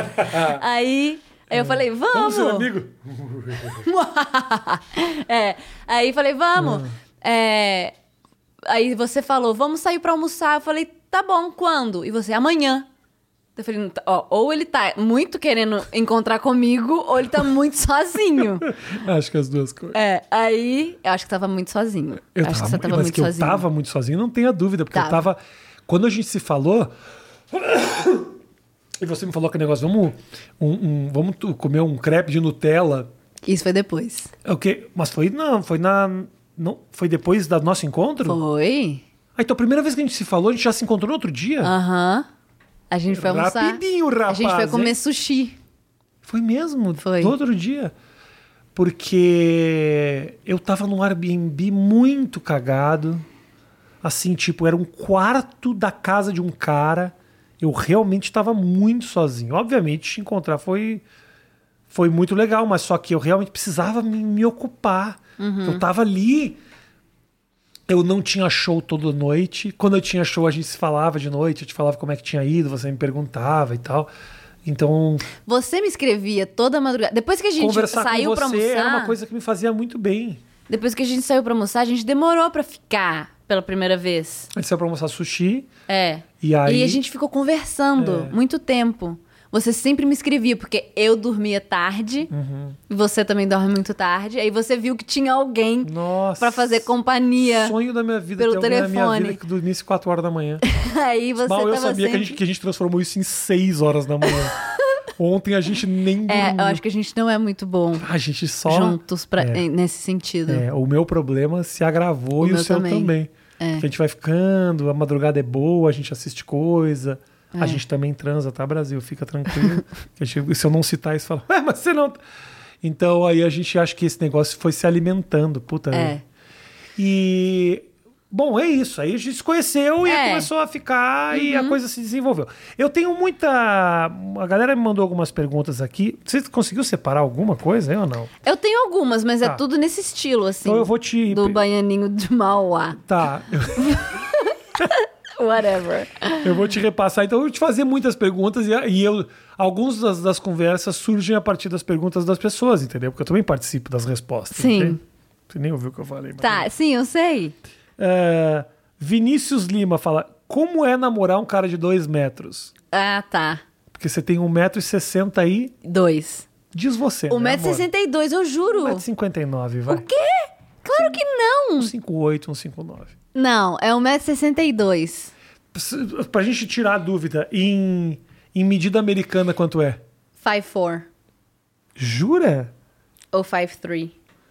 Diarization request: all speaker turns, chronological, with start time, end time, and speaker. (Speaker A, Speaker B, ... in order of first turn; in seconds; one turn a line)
Speaker A: 0.2-0.6
Speaker B: 0.2-2.7
Speaker A: 1.5-3.9
Speaker B: 3.8-7.9
Speaker A: 6.6-6.9
Speaker B: 8.7-12.9
Speaker B: 13.6-18.7
Speaker A: 18.7-20.0
Speaker B: 19.9-23.6
Speaker A: 22.4-26.9
Speaker B: 24.9-25.2
Speaker A: 27.5-28.3
Speaker A: 29.0-33.1
Speaker B: 33.5-34.3
Speaker A: 34.5-38.4
Speaker B: 38.2-39.0
Speaker A: 39.4-41.7
Speaker B: 41.6-42.3
Speaker B: 42.9-45.6
Speaker A: 43.1-45.0
Speaker A: 46.2-47.9
Speaker B: 47.0-47.4
Speaker A: 48.8-53.3
Speaker A: 54.0-61.0
Speaker A: 61.9-66.6
Speaker B: 65.4-65.8
Speaker A: 67.9-74.1
Speaker A: 74.7-75.3
Speaker B: 75.5-79.2
Speaker A: 77.6-80.4
Speaker B: 80.7-84.5
Speaker A: 84.5-85.7
Speaker B: 85.9-92.3
Speaker A: 86.4-87.0
Speaker A: 88.0-88.4
Speaker A: 92.3-92.8
Speaker B: 92.9-97.8
Speaker A: 95.8-100.6
Speaker B: 98.4-99.4
Speaker B: 100.6-102.4
Speaker A: 101.4-104.5
Speaker A: 105.2-106.8
Speaker B: 106.3-108.1
Speaker A: 108.0-109.7
Speaker B: 108.7-110.7
Speaker A: 110.5-122.2
Speaker B: 112.4-113.9
Speaker B: 117.5-117.8
Speaker A: 122.8-126.2
Speaker B: 125.9-126.2
Speaker A: 127.0-138.3
Speaker B: 130.1-130.5
Speaker B: 131.3-131.8
Speaker B: 138.4-143.0
Speaker A: 140.6-141.6
Speaker A: 143.0-144.0
Speaker B: 143.8-146.5
Speaker A: 146.4-155.0
Speaker B: 154.5-155.0
Speaker A: 155.5-156.7
Speaker B: 156.4-157.6
Speaker A: 158.0-162.7
Speaker B: 162.9-163.6
Speaker A: 163.9-165.7
Speaker B: 165.8-166.5
Speaker A: 166.7-167.9
Speaker B: 167.3-169.0
Speaker A: 168.7-170.1
Speaker B: 169.9-171.9
Speaker A: 171.8-173.1
Speaker B: 173.3-175.3
Speaker A: 175.7-180.0
Speaker B: 180.4-181.1
Speaker A: 182.0-182.7
Speaker B: 183.3-184.1